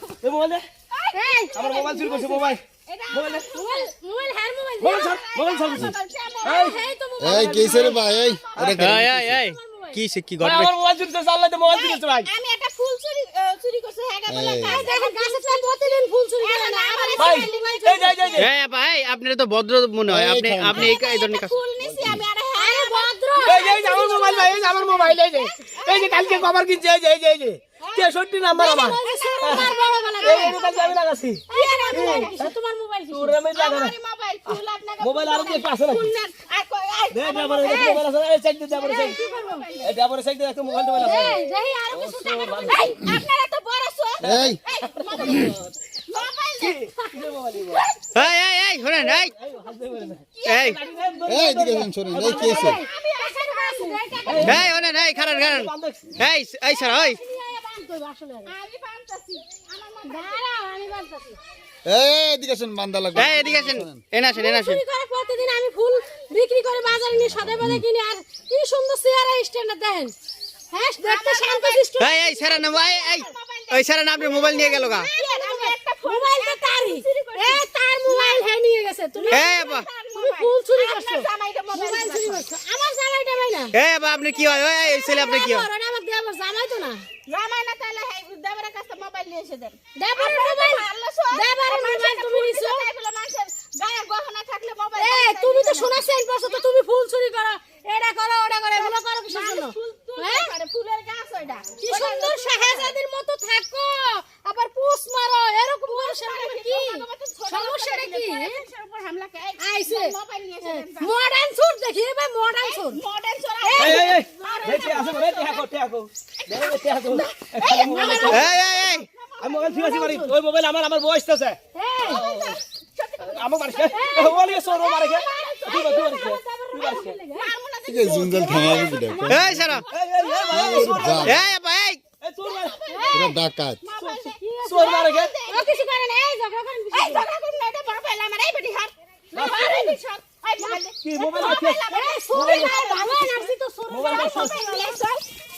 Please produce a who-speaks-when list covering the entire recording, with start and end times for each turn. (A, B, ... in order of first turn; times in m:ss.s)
0:00.2-0:00.6 A
0:00.9-0:03.9 B
0:01.1-0:01.5 C
0:01.5-0:03.5 A
0:03.5-0:05.2 C
0:04.8-0:06.8 A
0:04.8-0:08.8 B
0:06.4-0:08.0 C
0:07.2-0:09.4 D
0:07.3-0:07.8 A
0:08.5-0:09.4 A
0:08.7-0:10.7 E
0:09.3-0:10.0 C
0:10.4-0:12.3 A
0:11.6-0:18.4 B
0:14.3-0:14.8 D
0:14.7-0:18.5 C
0:17.2-0:18.5 A
0:18.4-0:21.6 E
0:20.1-0:21.0 D
0:20.8-0:26.5 B
0:21.8-0:22.1 A
0:22.6-0:25.1 C
0:23.4-0:32.5 A
0:27.8-0:30.9 B
0:28.6-0:30.9 C
0:31.5-0:33.3 C
0:31.5-0:32.3 B
0:33.1-0:36.1 A
0:33.5-0:38.0 B
0:37.1-0:39.2 A
0:38.8-0:40.0 B
0:38.9-0:39.6 C
0:39.8-0:41.4 A
0:40.7-0:41.4 B
0:41.0-0:42.9 C
0:41.9-0:42.9 A
0:42.6-0:45.5 B
0:44.2-0:45.8 A
0:44.2-0:44.6 D
0:46.1-0:46.8 B
0:46.6-0:47.8 A
0:47.8-0:48.0 B
0:48.1-0:49.3 E
0:48.9-0:52.8 A
0:50.4-0:51.3 B
0:50.4-0:50.8 E
0:51.2-0:52.8 D
0:52.1-0:54.6 C
0:52.6-0:54.7 B
0:54.2-0:56.2 A
0:54.4-0:57.2 E
0:56.7-0:58.5 C
0:58.4-1:00.4 B
1:00.0-1:01.4 C
1:01.8-1:04.0 D
1:03.1-1:04.8 E
1:04.3-1:10.1 C
1:07.2-1:07.8 D
1:10.7-1:12.1 C
1:11.0-1:18.5 B
1:12.0-1:15.1 E
1:15.2-1:19.4 C
1:19.1-1:22.4 B
1:19.3-1:19.9 E
1:20.1-1:23.7 C
1:23.7-1:25.7 E
1:24.7-1:27.0 C
1:27.3-1:36.0 B
1:30.0-1:32.8 C
1:35.0-1:40.5 C
1:38.8-1:43.0 B
1:41.8-1:48.6 C
1:45.9-1:51.1 B
1:49.6-1:53.0 C
1:52.6-1:55.7 B
1:53.6-1:55.2 C
1:53.8-1:58.6 A
1:56.4-2:00.2 B
1:57.8-1:58.4 C
1:58.3-1:59.1 E
1:59.4-2:02.6 A
1:59.7-2:00.3 C
2:01.7-2:02.2 C
2:02.2-2:06.0 B
2:03.2-2:07.2 A
2:03.9-2:07.5 C
2:07.3-2:11.3 B
2:07.8-2:09.8 D
2:09.3-2:09.8 E
2:09.9-2:11.5 A
2:10.3-2:11.1 C
2:10.5-2:11.5 D
2:11.2-2:12.0 E
2:12.2-2:12.8 A
2:12.4-2:15.8 B
2:12.9-2:13.3 C
2:13.1-2:13.8 D
2:14.0-2:15.3 A
2:14.4-2:14.8 C
2:15.5-2:17.2 C
2:16.9-2:23.5 B
2:19.3-2:19.7 A
2:19.4-2:20.0 C
2:21.0-2:22.8 A
2:21.9-2:24.9 C
2:23.9-2:24.6 A
2:24.0-2:25.2 B